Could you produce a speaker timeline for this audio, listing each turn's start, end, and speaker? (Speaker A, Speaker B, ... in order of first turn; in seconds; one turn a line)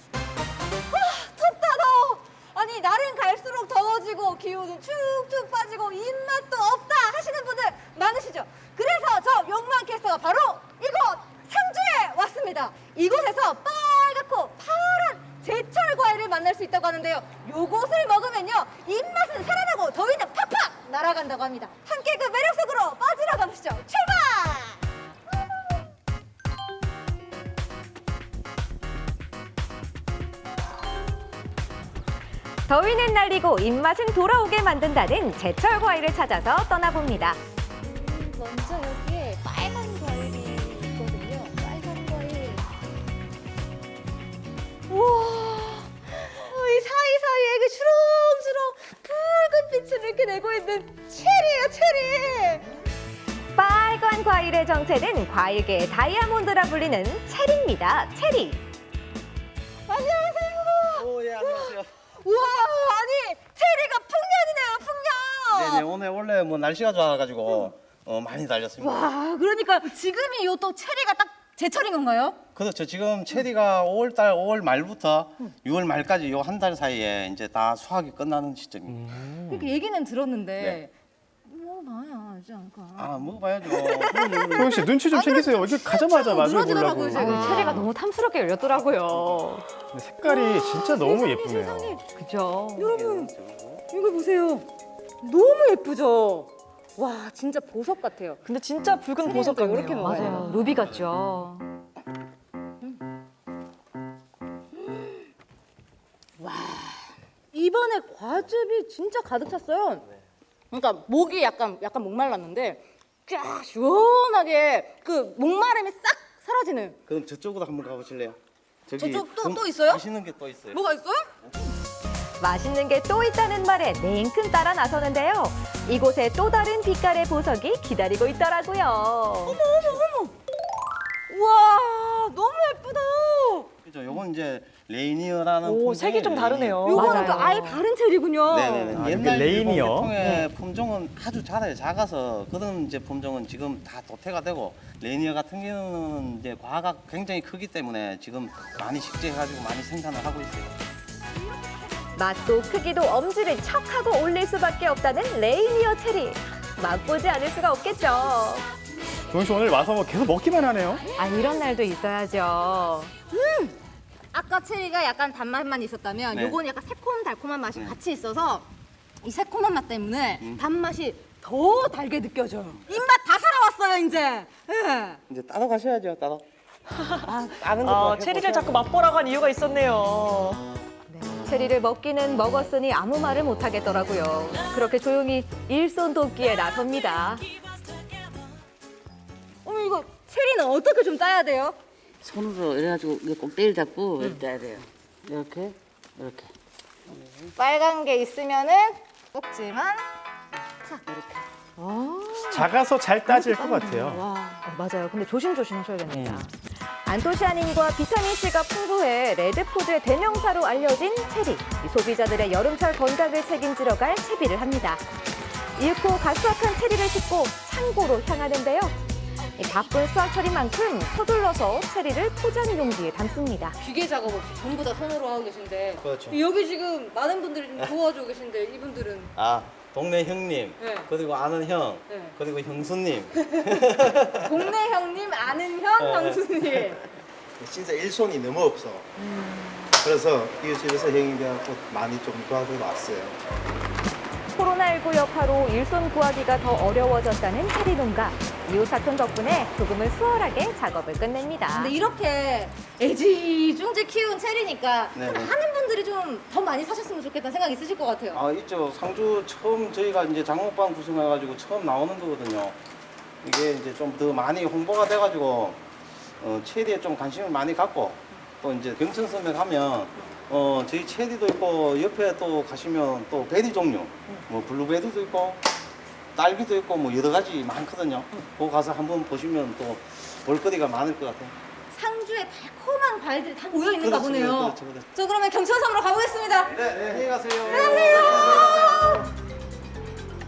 Speaker A: 0.9-24.8
Speaker B: 32.7-37.4
Speaker A: 37.8-42.7
Speaker A: 44.9-52.6
Speaker B: 53.5-58.6
Speaker A: 59.9-65.8
Speaker C: 60.9-61.9
Speaker C: 65.5-69.1
Speaker A: 68.8-72.4
Speaker C: 72.5-79.1
Speaker D: 78.9-79.7
Speaker A: 79.5-80.9
Speaker A: 81.5-83.2
Speaker C: 83.0-84.8
Speaker A: 83.8-87.8
Speaker D: 84.5-87.8
Speaker B: 87.1-89.6
Speaker D: 89.9-92.0
Speaker A: 90.2-92.0
Speaker B: 92.2-92.9
Speaker A: 92.8-93.3
Speaker C: 92.8-93.8
Speaker A: 93.9-94.7
Speaker A: 95.2-98.4
Speaker E: 98.5-100.5
Speaker A: 99.2-100.6
Speaker B: 100.2-101.6
Speaker C: 100.6-101.1
Speaker A: 104.8-105.2
Speaker A: 106.4-110.0
Speaker A: 110.7-117.0
Speaker C: 117.1-120.8
Speaker A: 119.0-120.0
Speaker A: 120.7-121.3
Speaker B: 122.4-129.6
Speaker A: 129.4-130.3
Speaker A: 131.3-133.7
Speaker C: 133.8-136.9
Speaker E: 135.6-136.9
Speaker A: 136.8-139.0
Speaker B: 136.9-137.8
Speaker C: 138.5-150.8
Speaker D: 138.9-140.1
Speaker B: 152.2-158.6
Speaker D: 159.3-161.0
Speaker B: 161.2-163.1
Speaker A: 163.3-163.7
Speaker A: 164.3-168.7
Speaker C: 166.3-166.6
Speaker C: 167.7-168.0
Speaker A: 169.2-175.2
Speaker C: 175.3-176.4
Speaker C: 177.2-178.8
Speaker E: 177.4-180.6
Speaker B: 181.1-187.4
Speaker A: 189.6-191.8
Speaker F: 192.3-194.4
Speaker F: 195.3-195.7
Speaker A: 197.6-200.0
Speaker A: 200.8-202.7
Speaker D: 202.5-204.2
Speaker A: 203.3-204.6
Speaker B: 204.6-215.0
Speaker D: 206.1-206.4
Speaker B: 215.8-218.9
Speaker B: 219.6-223.8
Speaker A: 223.8-229.3
Speaker C: 226.0-226.4
Speaker C: 229.3-234.7
Speaker A: 230.8-231.1
Speaker A: 232.1-232.3
Speaker A: 234.4-237.0
Speaker C: 236.0-237.0
Speaker G: 237.6-239.1
Speaker G: 240.0-243.3
Speaker B: 244.5-251.9
Speaker A: 251.7-258.4
Speaker C: 255.1-255.5
Speaker C: 258.3-262.8
Speaker C: 263.4-265.8
Speaker C: 266.4-275.6
Speaker C: 276.3-281.6
Speaker A: 281.9-286.8
Speaker C: 284.0-285.1
Speaker C: 286.8-289.1
Speaker A: 287.6-289.3